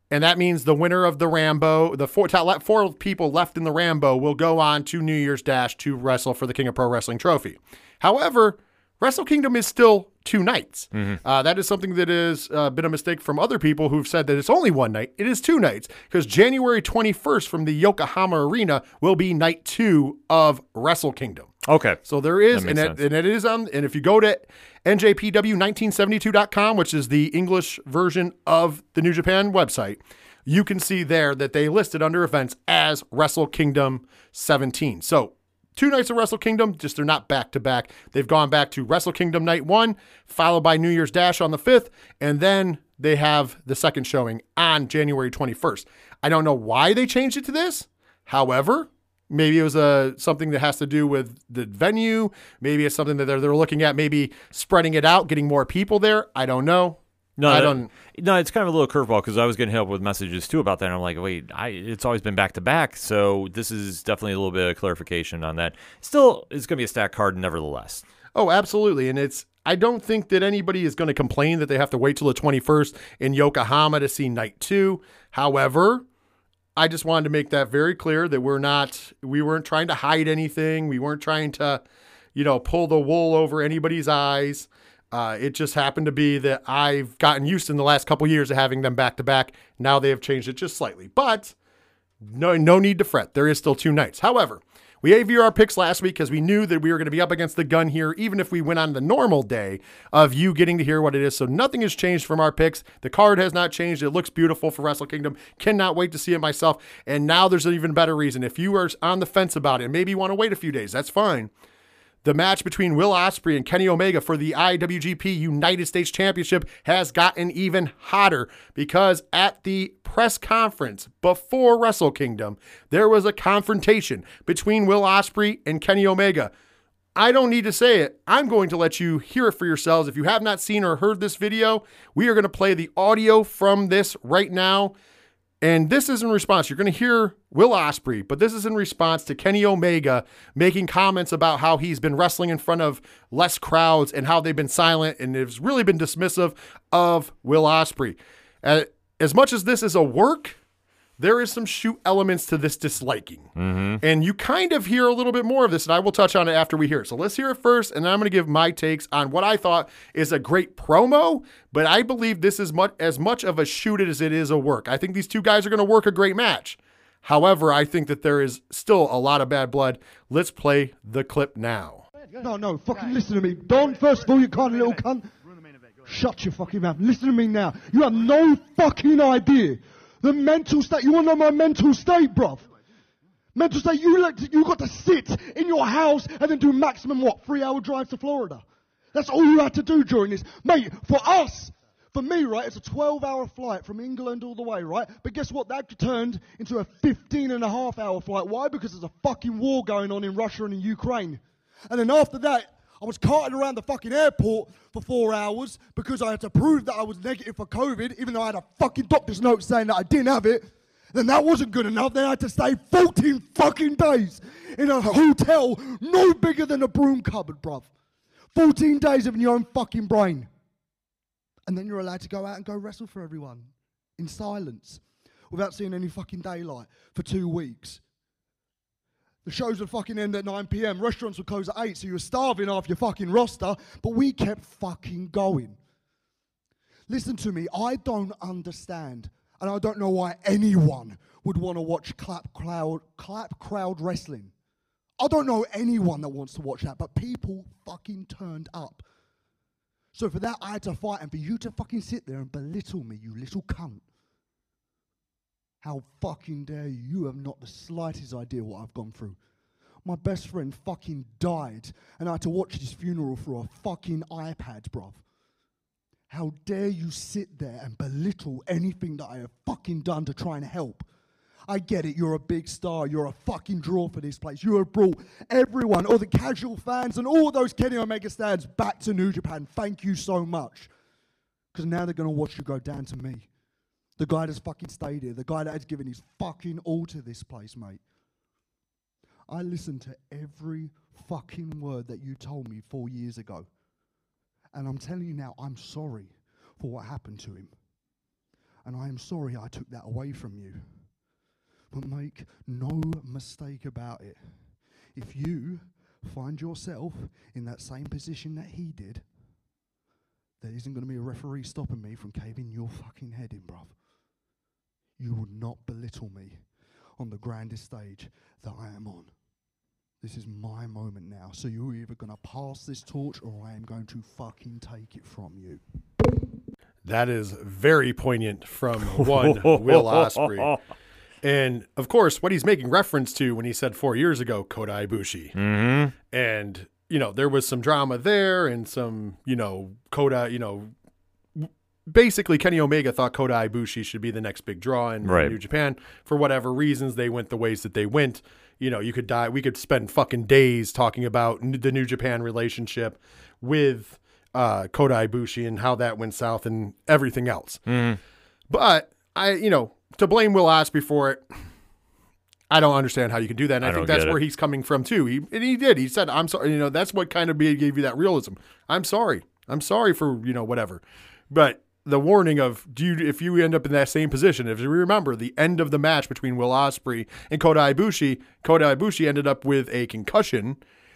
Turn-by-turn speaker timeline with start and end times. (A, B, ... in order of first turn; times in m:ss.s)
0:00.1-0:21.5 A
0:21.6-0:22.0 B
0:22.1-0:57.9 A
0:22.5-0:23.0 B
0:57.4-1:08.0 B
1:08.4-1:16.1 A
1:16.8-1:21.8 A
1:22.4-1:31.6 A
1:32.2-1:51.5 A
1:52.2-2:06.5 A
2:07.2-2:15.0 A
2:15.6-2:30.6 A
2:31.2-2:52.1 A
2:33.6-2:34.0 B
2:52.4-2:55.3 C
2:56.0-3:02.7 C
3:03.6-3:37.9 C
3:38.5-3:40.5 C
3:41.7-3:48.0 C
3:49.4-3:55.8 C
3:57.1-4:04.5 C
4:05.2-4:09.0 C
4:10.1-4:14.0 C
4:15.8-4:19.4 C
4:20.0-4:25.2 C
4:26.3-4:31.1 C
4:31.7-4:40.9 C
4:41.7-4:43.5 C
4:44.2-4:48.0 C
4:49.5-4:53.7 C
4:54.7-4:57.8 C
4:58.8-5:01.2 C
5:01.9-5:09.3 C
5:10.6-5:14.0 C
5:15.2-5:19.5 C
5:20.2-5:25.8 C
5:27.0-5:30.7 A
5:29.2-5:30.8 B
5:31.4-5:35.6 A
5:35.6-5:36.1 B
5:36.3-5:40.9 A
5:41.6-5:57.8 A
5:45.2-5:45.6 B
5:57.9-5:58.2 B
5:58.7-6:01.4 A
6:02.7-6:20.8 A
6:03.8-6:04.4 B